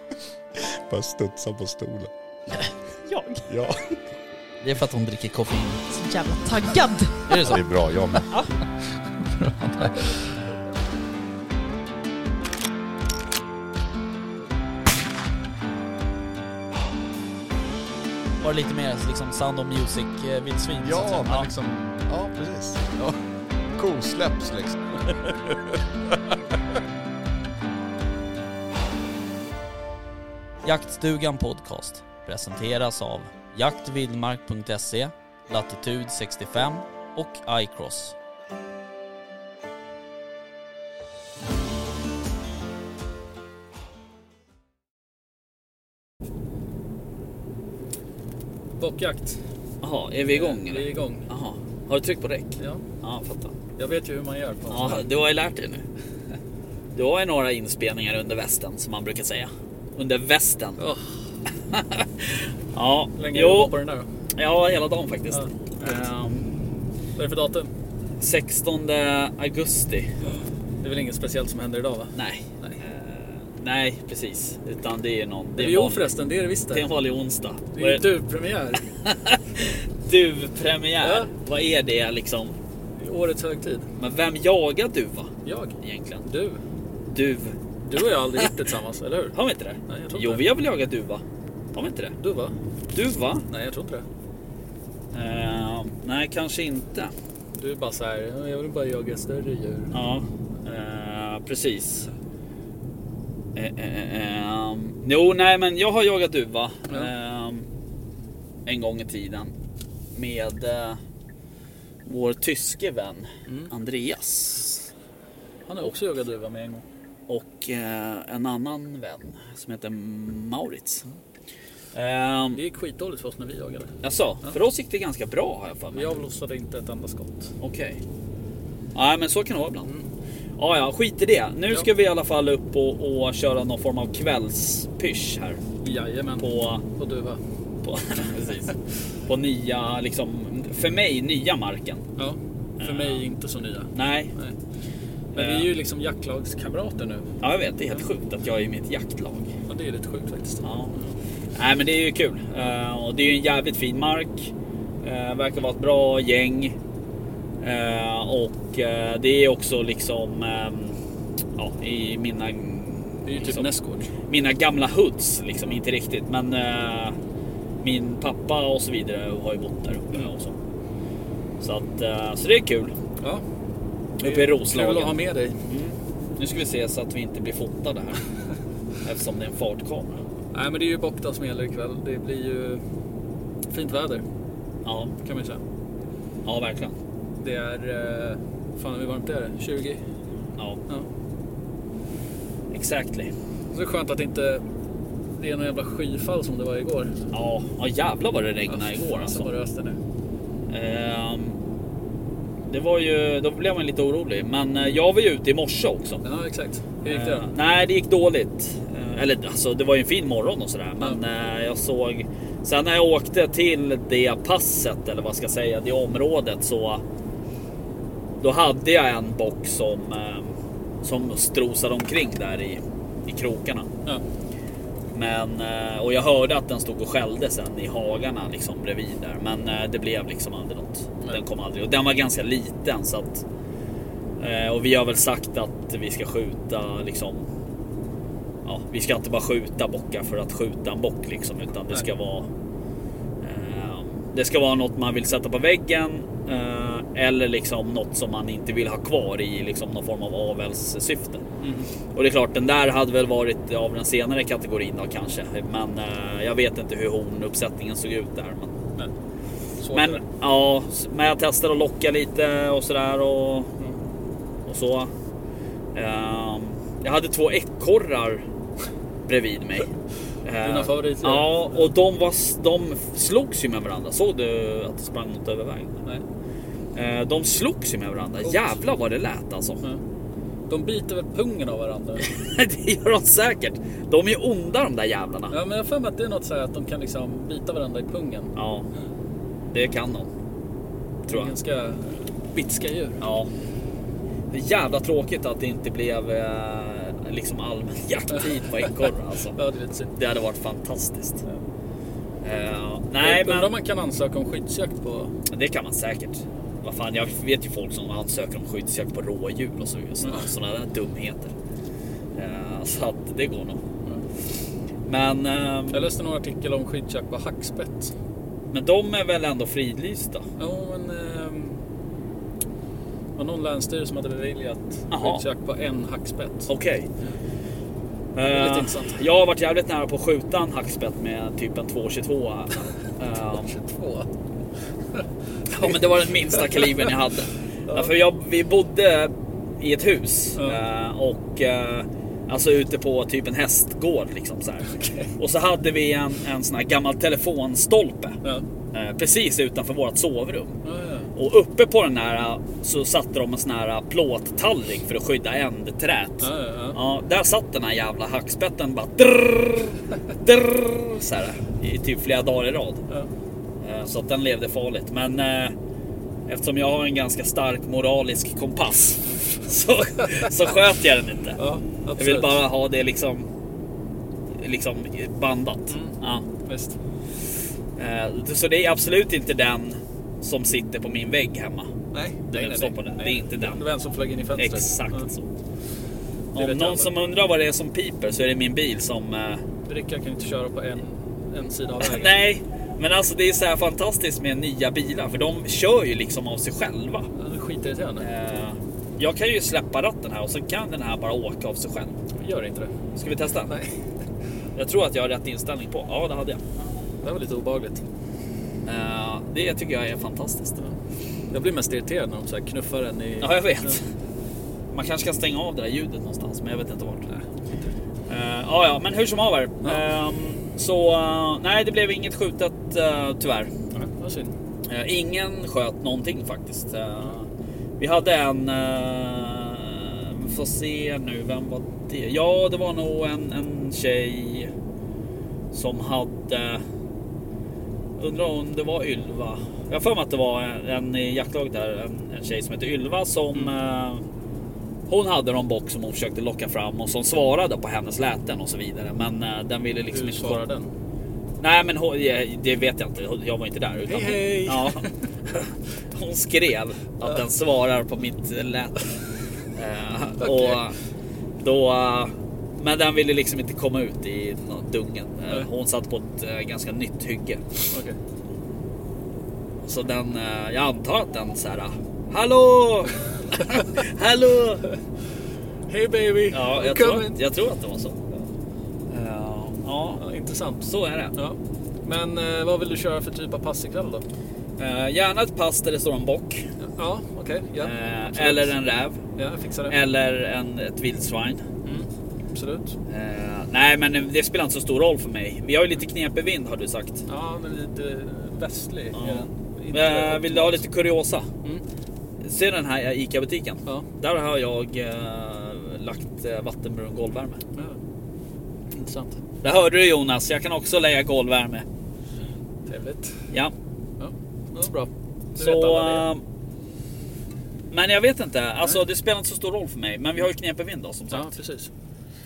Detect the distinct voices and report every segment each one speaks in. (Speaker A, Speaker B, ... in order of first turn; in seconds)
Speaker A: 0.6-2.1, 3.5-3.8, 7.4-8.3, 20.8-23.2, 23.8-26.4
Speaker B: 3.0-3.5, 6.0-7.6, 8.2-8.5
Speaker C: 4.6-6.0, 7.3-7.6, 9.3-10.1, 18.4-21.5, 30.6-38.2, 49.8-53.5, 54.7-55.8, 56.9-60.8, 61.7-63.7, 64.3-66.5, 68.2-70.1, 72.1-76.1, 76.7-78.0, 78.9-82.5, 84.0-86.2, 87.1-87.5, 89.3-91.2, 91.7-92.1, 92.9-93.4, 95.1-97.1, 99.9-102.1, 103.5-107.7, 108.7-109.5, 110.1-111.0, 112.0-114.9, 117.3-121.0, 121.9-122.6, 124.0-126.2, 127.6-128.0, 128.9-129.9, 130.6-135.6, 136.4-136.8, 137.8-138.7, 139.3-142.1, 142.8-143.2, 143.9-144.3, 145.3-145.7, 147.4-149.5, 150.6-150.9, 151.5-156.8, 157.6-161.0, 161.6-163.7, 164.3-167.2, 167.8-170.6, 171.6-172.9, 174.2-178.2, 179.0-180.2, 184.8-185.1, 186.4-187.0, 192.7-193.3, 197.3-199.5, 200.7-201.6, 202.7-206.2, 207.0-217.0, 218.4-223.9, 225.1-233.4, 234.4-237.4, 238.6-242.5, 243.4-251.4, 252.1-258.7, 259.9-263.7, 264.6-265.1, 265.9-268.4, 269.2-269.9, 270.4-276.0, 276.9-279.8, 282.2-285.5, 288.6-288.9, 289.7-290.3, 293.2-293.5, 294.5-299.6, 300.1-301.4, 302.4-303.7, 305.5-311.5, 312.3-313.8, 315.1-316.1, 318.7-320.5, 325.1-325.4, 326.7-327.1, 328.3-333.7, 335.7-348.4, 348.9-350.8, 351.3-363.0, 363.8-365.7, 366.5-371.6, 372.2-373.5, 374.6-376.4, 378.0-381.9, 382.5-383.8, 384.6-385.5, 386.5-389.6, 392.0-397.3, 398.2-402.2, 403.1-403.7, 404.7-406.6, 408.8-410.8, 413.4-414.0, 414.9-417.3, 418.3-423.7, 424.9-427.5, 428.0-434.7, 435.7-436.8, 438.2-444.2, 445.1-450.6, 451.6-459.1, 459.7-460.9, 461.6-467.6, 469.8-474.8, 476.5-478.2, 479.1-480.2, 480.8-481.3, 484.8-486.7, 487.8-489.2, 489.9-491.6, 493.1-497.2, 499.1-501.5, 502.4-507.6, 509.6-511.9, 515.5-516.4, 517.9-521.5
Speaker D: 48.8-49.4, 50.3-51.3, 53.8-55.0, 60.8-61.2, 63.1-64.1, 65.3-66.0, 67.2-67.7, 70.8-72.8, 75.6-76.9, 77.7-78.8, 81.0-81.3, 83.0-83.9, 85.4-86.6, 87.9-89.3, 89.9-90.4, 92.2-92.5, 93.5-94.0, 97.6-99.9, 113.5-113.7, 115.7-116.8, 122.5-123.9, 125.9-127.5, 135.8-137.4, 142.2-144.6, 145.3-147.3, 149.7-151.1, 163.2-164.1, 174.2-175.6, 180.5-182.8, 183.7-184.2, 185.2-185.6, 187.4-190.0, 193.7-194.6, 195.4-197.1, 198.7-200.0, 206.2-207.5, 251.6-251.9, 259.8-260.2, 270.6-271.9, 280.7-282.3, 285.5-288.5, 291.2-293.2, 299.5-300.1, 303.2-305.3, 310.2-310.5, 315.9-318.1, 320.6-321.8, 323.4-326.7, 328.5-329.2, 333.5-334.3, 336.6-337.1, 337.9-338.1, 345.0-345.3, 350.8-351.3, 356.4-357.0, 371.6-372.6, 375.9-377.0, 382.1-385.3, 386.5-387.1, 389.9-392.4, 397.3-398.3, 402.4-402.9, 403.7-403.9, 406.8-408.0, 411.5-414.0, 423.9-424.5, 450.1-450.9, 454.1-455.1, 460.4-460.8, 467.9-468.2, 475.9-477.4, 480.1-484.2, 486.8-488.7, 489.4-489.9, 491.8-492.9, 497.3-500.8, 508.9-509.4, 512.9-513.4, 514.2-516.3, 521.3-521.9